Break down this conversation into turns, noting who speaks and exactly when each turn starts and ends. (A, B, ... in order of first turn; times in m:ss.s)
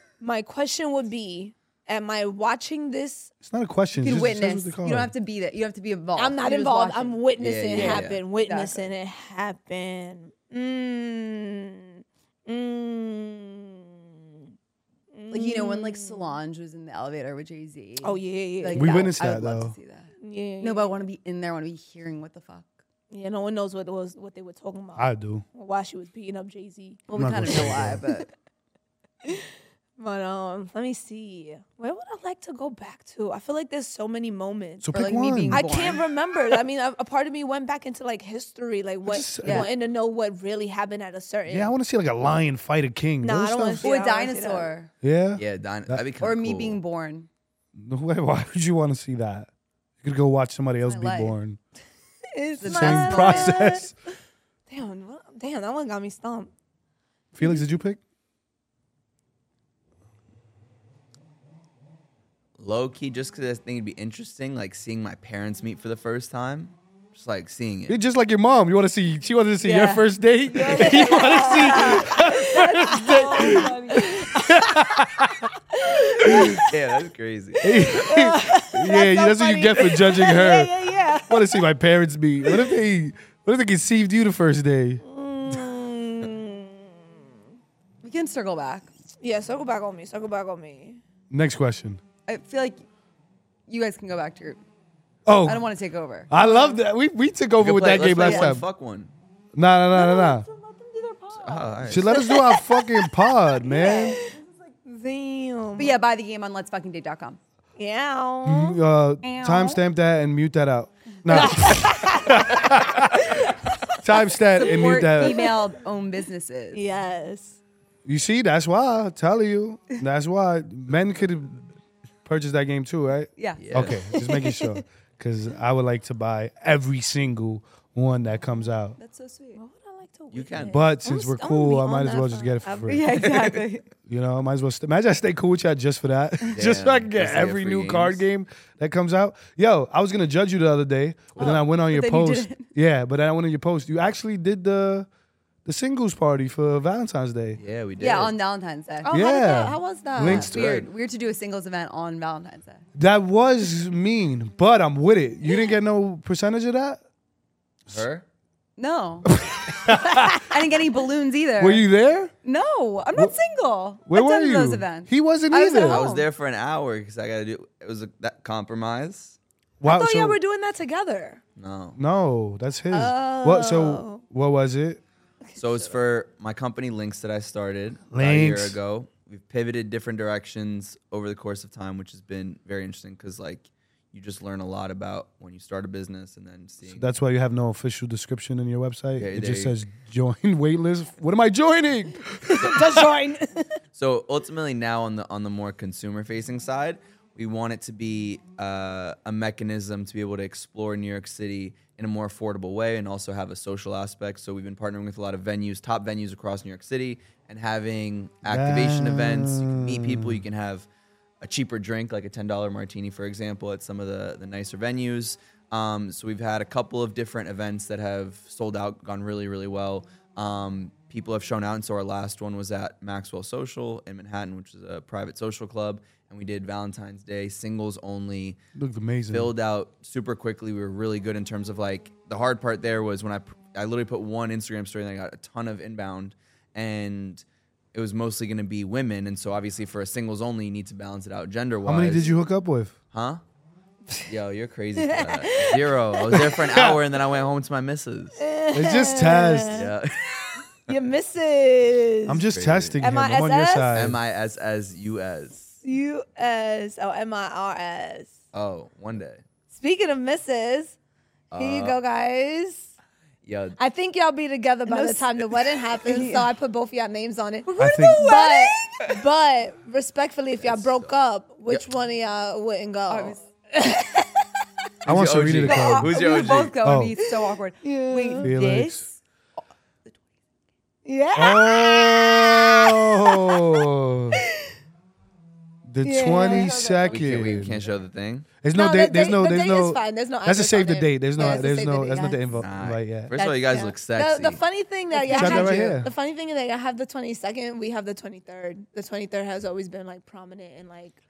0:00.2-0:03.3 A
0:03.4-0:05.1 B
0:04.0-0:08.9 C
0:06.2-0:14.1 A
0:07.4-0:08.2 D
0:15.1-0:16.4 A
0:15.3-0:22.7 C
0:18.0-0:19.1 A
0:18.8-0:19.7 B
0:20.2-0:21.0 A
0:23.1-0:27.0 A
0:25.0-0:25.4 B
0:27.1-0:28.3 C
0:27.1-0:28.0 B
0:30.0-0:34.9 A
0:34.8-0:35.6 B
0:34.9-0:36.0 C
0:35.5-0:41.7 A
0:39.1-0:39.7 B
0:39.4-0:39.7 C
0:41.5-0:43.9 B
0:43.2-0:44.7 A
0:43.8-0:44.9 C
0:45.0-0:46.0 B
0:45.4-0:46.8 D
0:46.2-0:47.3 C
0:47.8-0:49.5 B
0:50.0-0:51.6 B
0:50.9-0:51.4 C
0:52.3-0:53.9 A
0:52.6-0:53.6 C
0:52.6-0:53.9 B
0:54.7-0:56.5 A
0:57.3-0:58.0 B
1:02.6-1:08.0 D
1:07.9-1:15.5 B
1:09.6-1:10.0 C
1:10.5-1:15.1 A
1:10.6-1:12.2 C
1:15.7-1:16.7 A
1:16.0-1:16.6 B
1:16.7-1:18.1 D
1:17.6-1:25.0 B
1:17.8-1:21.6 A
1:25.0-1:27.1 A
1:28.0-1:28.9 C
1:29.2-1:31.0 A
1:31.3-1:32.0 B
1:32.3-1:32.8 C
1:33.7-1:34.6 C
1:35.3-1:35.7 B
1:35.4-1:36.3 C
1:36.3-1:38.6 B
1:36.4-1:36.8 A
1:37.6-1:39.1 D
1:38.2-1:38.6 C
1:39.6-1:40.5 B
1:39.9-1:42.4 C
1:41.4-1:42.3 D
1:41.8-1:44.2 B
1:42.2-1:42.6 A
1:43.6-1:44.3 A
1:43.7-1:44.7 C
1:44.8-1:46.0 A
1:45.8-1:47.4 C
1:47.8-1:48.8 A
1:48.5-1:53.3 B
1:49.2-1:49.8 C
1:51.3-1:54.0 A
1:54.0-1:55.5 B
1:54.5-1:56.8 C
1:54.6-1:55.6 A
1:56.7-1:57.6 A
1:58.0-2:01.6 B
2:02.2-2:09.0 B
2:03.4-2:04.1 C
2:03.6-2:04.0 D
2:04.2-2:04.8 A
2:09.0-2:09.6 C
2:09.6-2:13.1 A
2:10.3-2:10.8 D
2:10.7-2:13.1 B
2:12.9-2:13.9 C
2:13.2-2:13.6 D
2:14.1-2:25.1 B
2:16.5-2:18.2 D
2:21.4-2:22.7 C
2:25.6-2:27.6 B
2:27.6-2:28.4 D
2:28.0-2:29.1 C
2:29.0-2:30.5 A
2:29.1-2:30.7 B
2:30.2-2:32.8 C
2:30.3-2:30.9 D
2:33.0-2:37.0 B
2:37.9-2:38.2 D
2:38.8-2:39.3 C
2:39.3-2:40.5 B
2:40.4-2:41.8 C
2:41.6-2:42.3 B
2:42.4-2:46.1 C
2:44.1-2:46.0 B
2:45.8-2:46.3 A
2:45.8-2:49.4 D
2:49.8-2:50.4 B
2:49.8-2:51.4 A
2:51.6-2:52.0 D
2:52.0-2:55.0 B
2:52.9-2:54.2 A
2:55.6-3:07.1 D
2:58.1-2:58.8 B
3:06.9-3:13.0 B
3:09.2-3:09.8 D
3:12.5-3:13.7 A
3:13.9-3:30.9 D
3:28.4-3:30.4 B
3:31.4-3:48.6 D
3:48.8-3:49.5 B
3:49.3-4:02.4 D
4:01.8-4:03.0 B
4:03.1-4:03.4 D
4:04.2-4:08.4 D
4:05.0-4:06.4 A
4:06.4-4:07.0 B
4:08.4-4:09.9 A
4:08.7-4:09.9 B
4:09.7-4:10.9 D
4:10.9-4:14.0 A
4:12.3-4:14.2 B
4:12.5-4:13.0 D
4:13.9-4:15.8 D
4:15.8-4:18.3 A
4:18.5-4:19.4 D
4:19.7-4:21.0 A
4:21.5-4:22.0 D
4:21.6-4:22.9 A
4:23.4-4:23.8 D
4:23.8-4:34.5 A
4:24.9-4:26.5 C
4:27.7-4:28.8 C
4:27.8-4:28.3 B
4:30.6-4:31.1 D
4:33.1-4:33.4 C
4:35.0-4:36.8 D
4:35.1-4:36.2 B
4:35.7-4:36.5 A
4:35.7-4:39.2 C
4:36.8-4:37.2 B
4:37.2-4:38.5 A
4:38.4-4:39.1 B
4:41.0-4:43.6 A
4:41.4-4:44.4 B
4:45.9-4:47.8 B
4:46.0-4:47.1 A
4:46.4-4:47.4 C
4:47.1-4:48.5 D
4:48.6-4:53.3 B
4:48.7-4:52.4 A
4:51.4-4:51.7 C
4:52.6-4:54.6 D
4:53.3-4:54.0 C
4:53.7-5:01.2 A
4:55.1-4:55.9 C
4:55.3-4:56.1 B